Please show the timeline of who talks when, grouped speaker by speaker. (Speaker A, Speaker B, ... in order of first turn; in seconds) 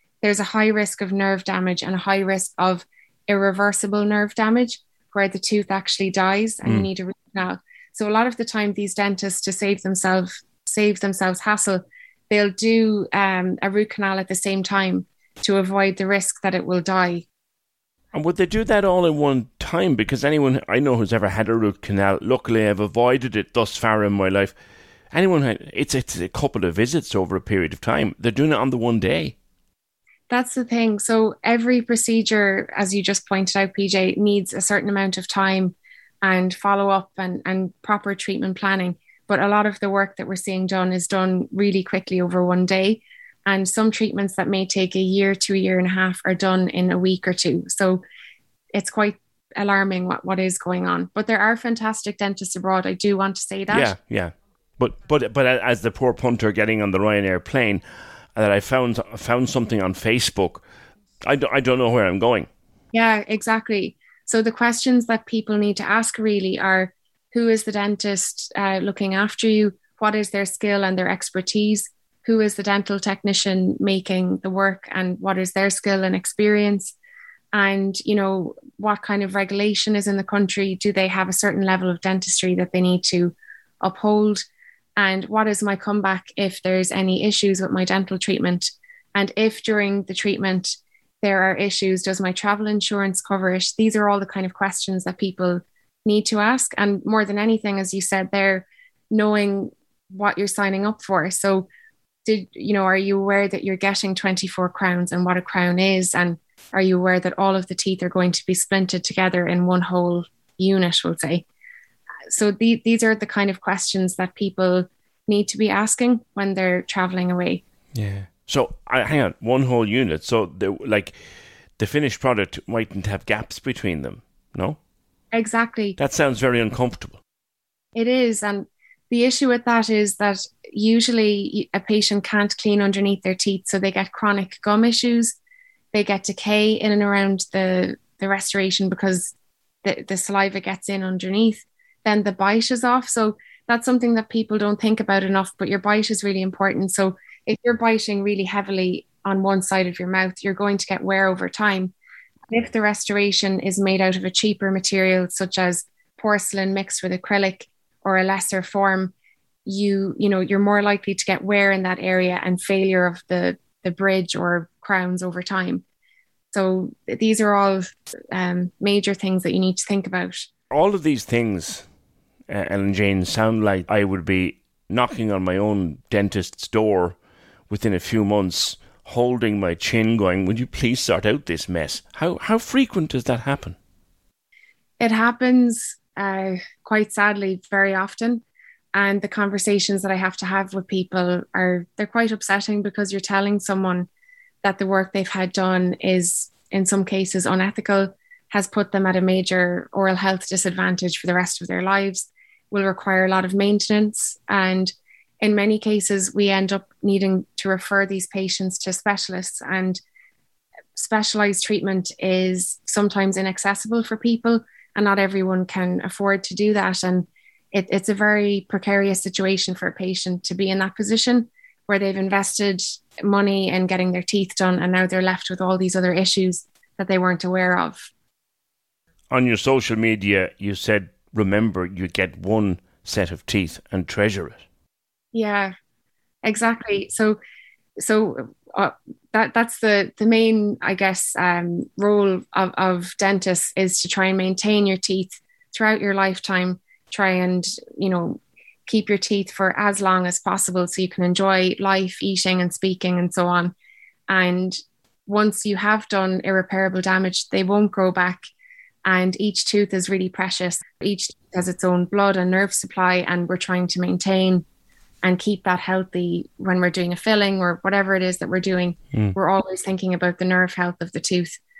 Speaker A: 0.2-17.2, 30.3-48.0, 48.7-53.9, 62.9-76.9, 77.5-84.4, 85.0-101.7, 102.2-111.4, 112.3-117.6, 125.3-126.0, 127.9-135.3, 135.9-139.3, 139.8-151.9, 152.5-159.1, 159.7-165.8, 166.5-170.5, 185.0-188.4, 188.9-194.1, 194.6-210.0, 210.9-228.1, 235.3-235.7, 236.4-237.4, 238.0-253.7, 254.3-258.4, 259.0-264.6, 265.2-271.6
Speaker B: 18.1-24.6, 25.1-29.3, 53.7-57.8, 58.4-60.6, 61.2-62.5, 117.9-121.2, 121.8-124.8, 126.0-127.2, 170.7-171.9, 172.5-177.2, 177.7-183.8, 229.3-234.6